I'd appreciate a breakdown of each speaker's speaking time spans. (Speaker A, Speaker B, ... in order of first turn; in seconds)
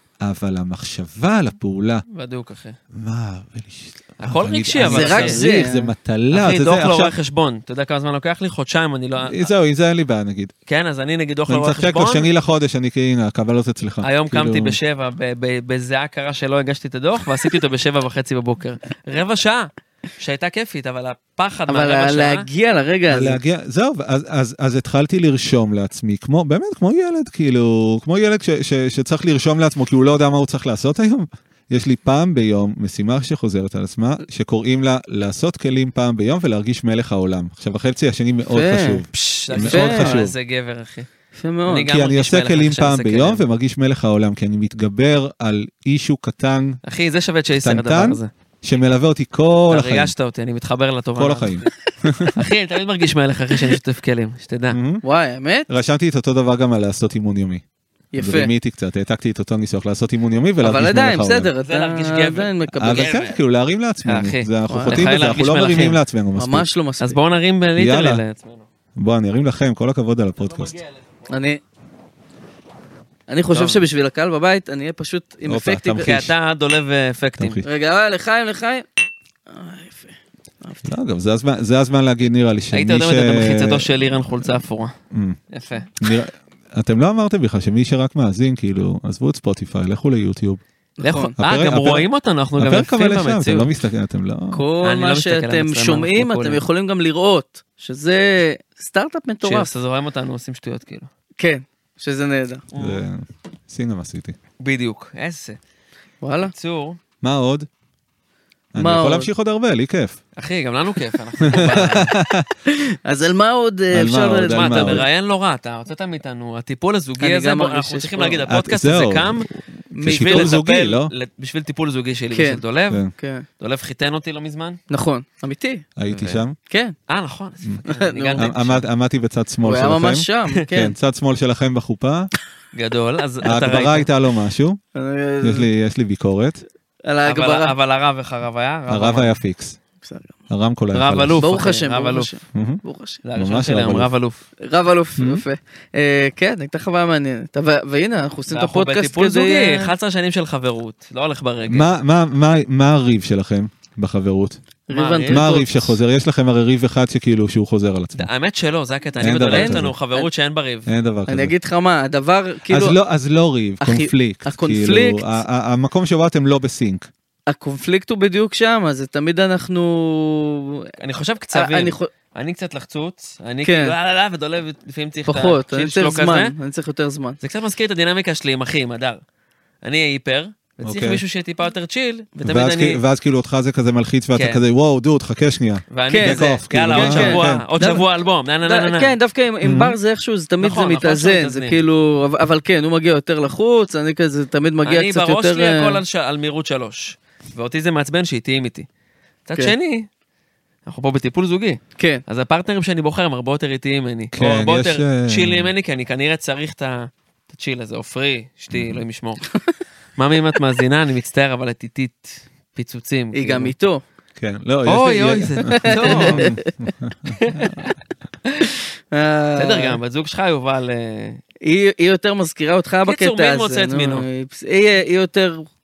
Speaker A: 0.2-2.0, 2.9-7.2, 9.2-10.5, 11.5-14.8, 23.1-40.4, 41.9-46.8, 47.5-50.1, 51.1-52.4, 54.7-55.0, 55.7-57.6, 58.2-61.5, 62.8-66.7, 67.8-68.2, 69.0-70.8, 75.5-76.3, 77.4-77.7, 80.8-83.9, 85.1-85.4, 86.0-90.6, 91.4-92.1, 92.6-94.6, 102.8-104.4, 107.2-107.7, 108.7-110.2, 111.4-112.5, 113.9-115.1, 118.5-121.1, 126.0-126.6, 128.4-132.3, 133.4-134.8, 135.4-136.6, 138.9-139.8, 140.5-141.5, 142.5-142.8, 143.4-144.1, 145.2-145.4, 151.7-154.6, 155.3-158.3, 159.2-159.9, 160.9-161.5, 162.7-167.1, 180.8-181.2, 182.4-187.7, 189.6-190.0, 204.3-205.7, 208.7-209.0, 214.4-217.9
Speaker B: 2.1-2.8, 4.2-5.5, 6.3-9.5, 10.7-12.3, 14.0-22.5, 39.1-41.1, 41.7-43.4, 46.9-48.3, 49.7-51.7, 52.4-54.8, 61.6-63.4, 64.0-66.0, 67.0-68.7, 70.4-71.3, 73.5-73.8, 76.0-77.6, 82.7-84.9, 85.5-86.0, 91.0-93.7, 94.8-96.6, 99.4-101.1, 102.7-103.0, 104.6-105.6, 106.4-107.0, 110.4-112.2, 114.5-119.5, 120.0-123.0, 123.6-124.8, 126.1-126.4, 127.1-128.8, 132.7-134.1, 137.2-139.4, 140.9-142.3, 143.2-144.4, 148.5-151.9, 154.9-155.6, 158.2-160.9, 171.0-176.5, 177.4-179.2, 179.8-183.0, 184.3-184.6, 185.9-189.1, 190.6-191.8, 194.8-198.9, 199.5-200.1, 200.9-209.5, 210.2-213.7, 214.9-216.5, 217.3-217.9, 219.6-221.4, 223.1-224.3
Speaker C: 4.8-5.9, 21.7-23.4, 38.5-39.0, 39.5-40.2, 41.4-41.9, 55.0-55.7, 58.1-58.5, 60.6-63.1, 64.7-65.0, 66.4-67.2, 71.3-71.6, 73.3-76.1, 77.6-78.9, 79.5-81.0, 91.0-91.3, 94.5-99.7, 101.4-102.7, 106.2-106.5, 108.8-109.3, 112.7-115.0, 117.2-118.4, 119.9-120.6, 122.3-122.6, 123.2-123.5, 124.9-125.9, 126.7-127.0, 127.8-128.5, 129.6-131.0, 134.9-135.7, 137.1-137.8, 140.0-140.3, 141.4-143.2, 144.6-149.9, 154.9-155.9, 159.4-160.3, 161.3-163.0, 163.8-165.4, 167.5-170.9, 171.5-172.1, 173.6-173.9, 175.3-177.4, 186.1-188.1, 188.7-196.0, 213.3-214.0, 215.7-216.7, 219.1-220.0, 221.6-225.7